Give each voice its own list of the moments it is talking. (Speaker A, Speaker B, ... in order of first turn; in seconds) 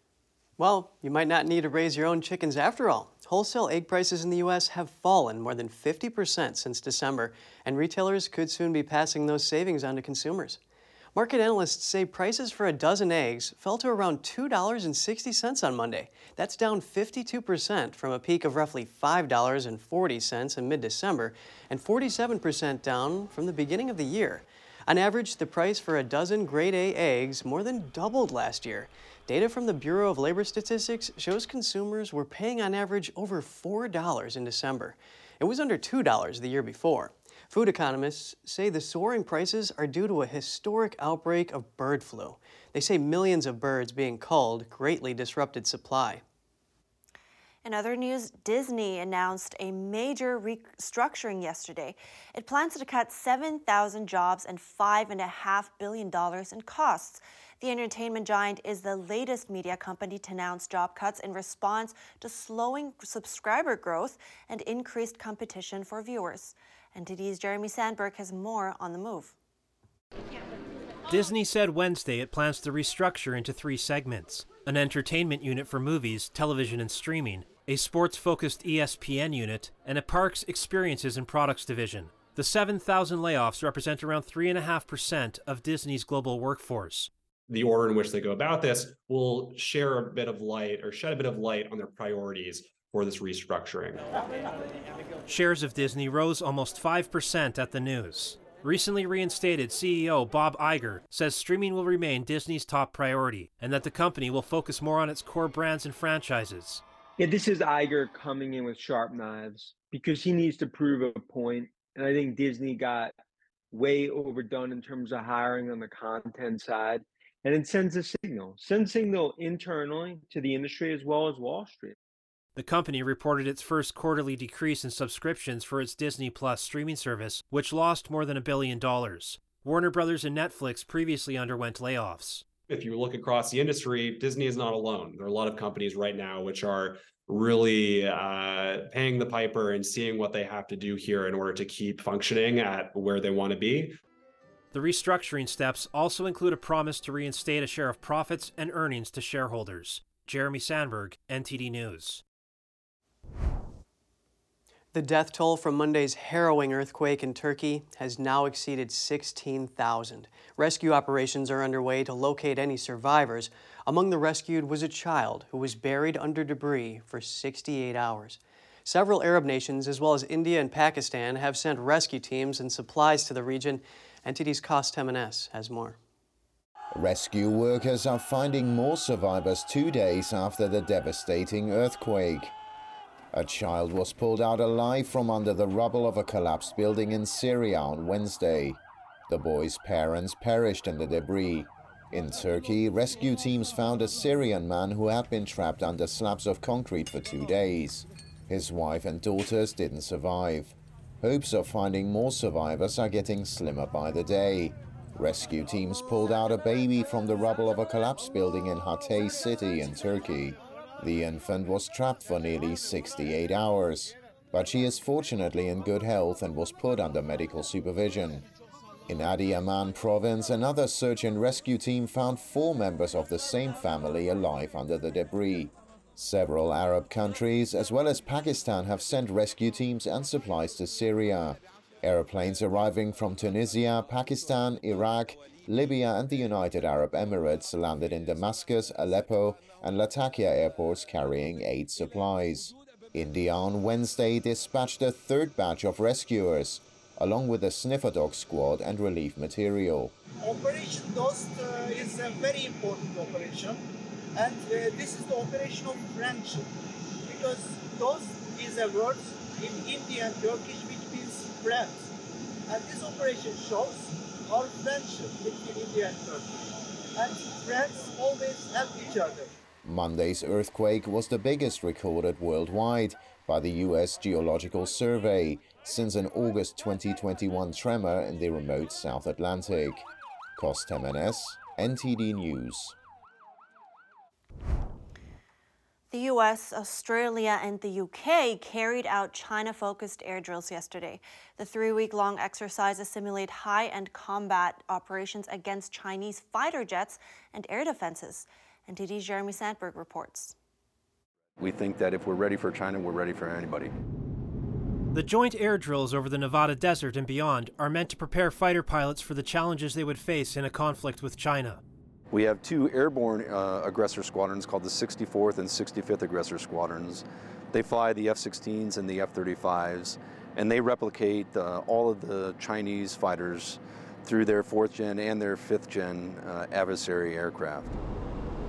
Speaker A: 0.6-10.6, 11.2-46.2, 154.9-176.0
Speaker B: 47.6-69.3, 286.1-300.5
Speaker C: 71.1-87.1, 95.3-106.8, 122.6-132.4, 144.7-152.2, 305.1-311.8
Speaker D: 87.5-94.1, 132.7-144.0
Speaker E: 107.2-113.2, 113.7-122.0
Speaker F: 176.9-182.5, 183.3-218.5, 219.1-250.1, 269.8-282.9
Speaker G: 250.4-253.8, 254.4-256.7, 257.3-262.1, 262.7-266.5, 267.2-269.5
Speaker H: 301.6-303.9, 312.3-327.9